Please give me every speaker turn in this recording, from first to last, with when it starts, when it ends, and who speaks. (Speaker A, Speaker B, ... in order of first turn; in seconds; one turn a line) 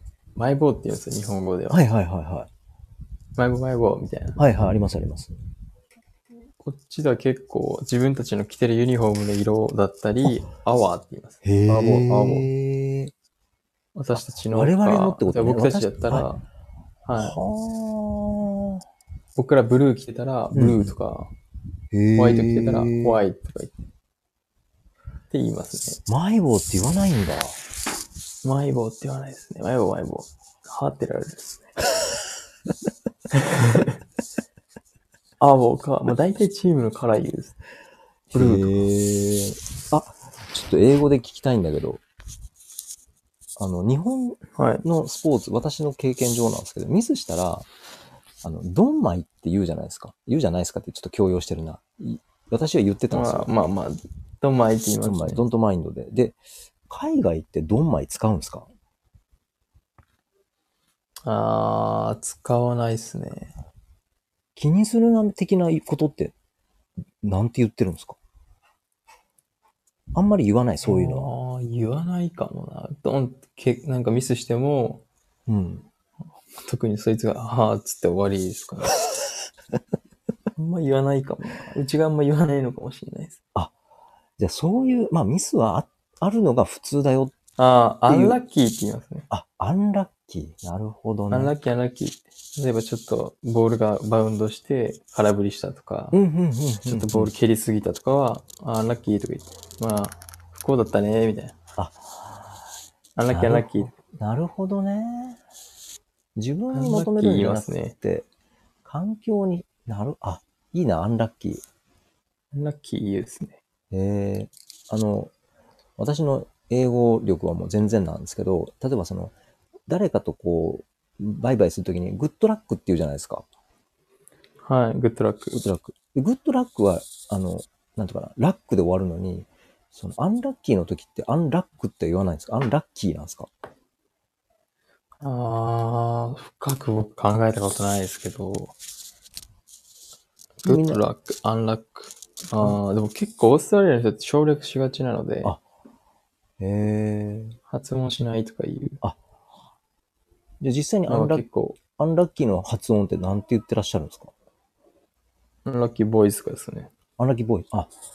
Speaker A: 0.3-1.8
Speaker B: 1.7-2.5
Speaker A: 3.4-4.4
Speaker B: 4.4-5.4
Speaker A: 6.6-12.5
Speaker B: 11.4-13.1
Speaker A: 13.9-16.4
Speaker B: 14.2-16.3
Speaker A: 17.0-17.4
Speaker B: 17.1-18.8
Speaker A: 19.4-21.3
Speaker B: 20.5-20.9
Speaker B: 21.9-23.2
Speaker A: 22.1-23.7
Speaker A: 25.3-26.0
Speaker B: 26.1-27.6
Speaker A: 28.4-31.7
Speaker A: 33.4-33.8
Speaker A: 35.4-37.6
Speaker A: 38.3-38.7
Speaker B: 38.3-42.0
Speaker B: 43.6-47.7
Speaker A: 44.5-44.8
Speaker B: 48.4-53.5
Speaker A: 53.1-55.5
Speaker B: 55.0-58.7
Speaker A: 61.2-63.5
Speaker B: 64.5-66.3
Speaker B: 67.2-68.2
Speaker B: 70.1-71.3
Speaker A: 70.8-75.0
Speaker B: 75.5-75.9
Speaker A: 76.5-78.9
Speaker A: 80.5-83.4
Speaker B: 84.4-87.3
Speaker A: 87.6-89.3
Speaker B: 88.1-88.4
Speaker B: 89.3-91.5
Speaker A: 91.3-96.2
Speaker B: 96.1-97.3
Speaker A: 96.8-101.5
Speaker B: 101.8-102.3
Speaker A: 103.2-103.9
Speaker B: 103.3-105.4
Speaker B: 106.3-108.3
Speaker A: 106.7-107.9
Speaker B: 108.8-111.6
Speaker A: 112.5-113.6
Speaker B: 113.9-115.3
Speaker B: 116.0-119.3
Speaker B: 119.9-123.4
Speaker A: 124.6-125.6
Speaker B: 125.5-133.5
Speaker A: 135.2-138.8
Speaker A: 140.6-145.5
Speaker B: 140.6-141.0
Speaker B: 146.6-147.6
Speaker A: 147.7-149.0
Speaker B: 150.6-154.3
Speaker A: 151.1-151.8
Speaker A: 155.6-156.9
Speaker B: 157.2-157.9